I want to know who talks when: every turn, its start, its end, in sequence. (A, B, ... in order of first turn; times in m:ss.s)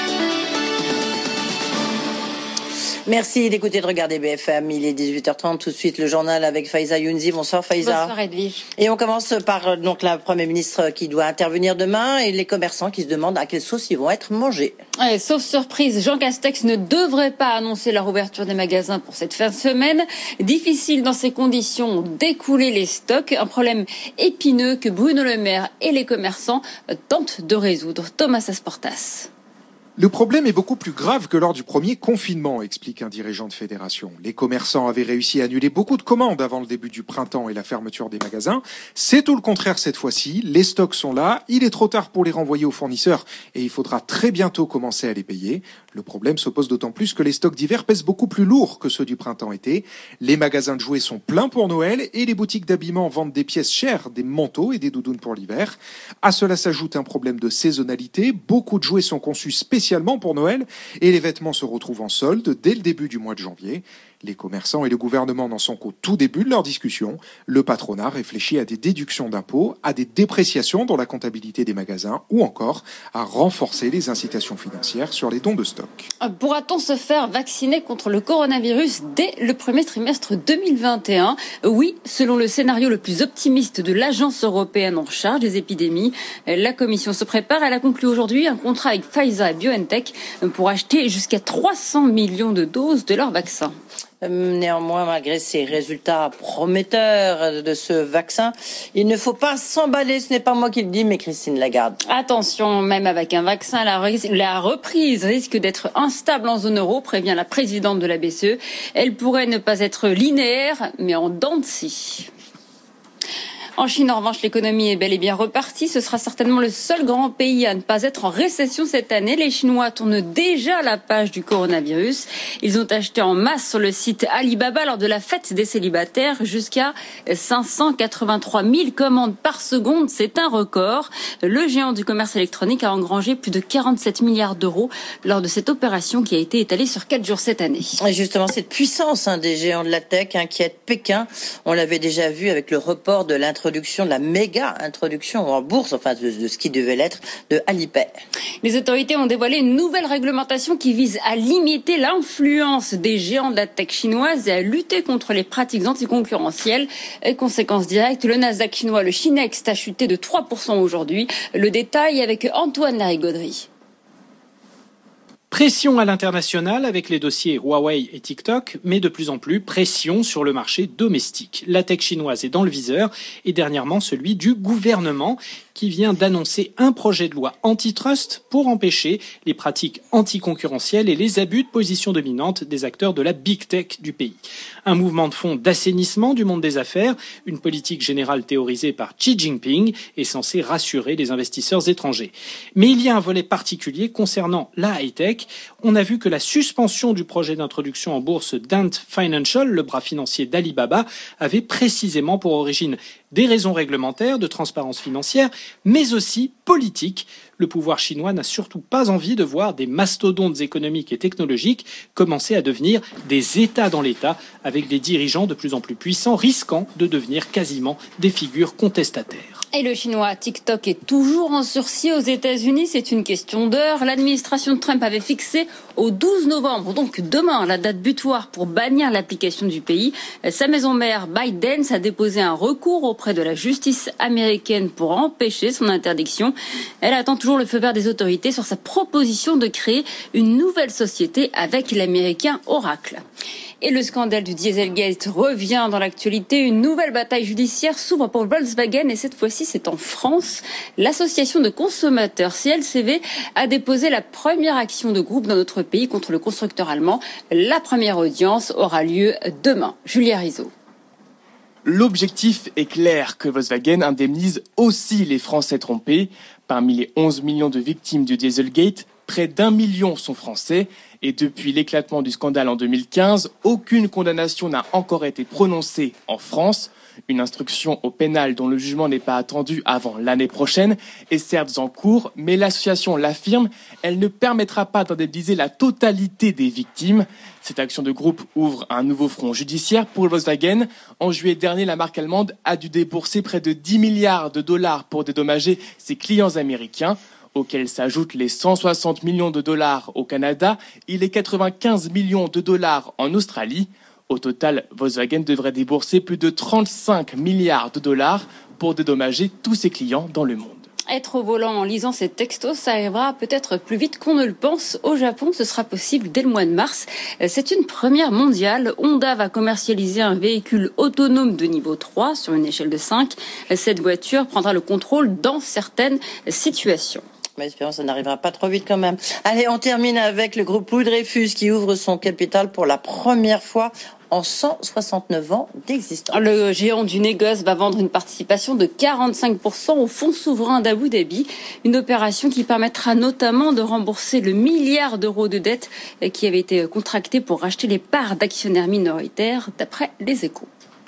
0:03.1-0:08.1 A
0:07.8-0:08.6 B
0:08.8-0:14.8 A
0:15.0-0:29.3 B
0:30.0-1:16.1 C
1:16.2-1:33.7 B
1:34.2-1:42.0 A
1:42.0-1:52.3 B
1:53.8-2:18.0 B
2:18.0-2:28.1 A
2:28.6-2:43.7 B
2:45.5-3:39.6 D
3:39.7-4:03.2 B
4:03.8-4:20.7 B
4:21.8-5:10.8 E
5:11.1-5:27.2 B
5:27.6-5:36.4 A
5:36.3-5:50.7 B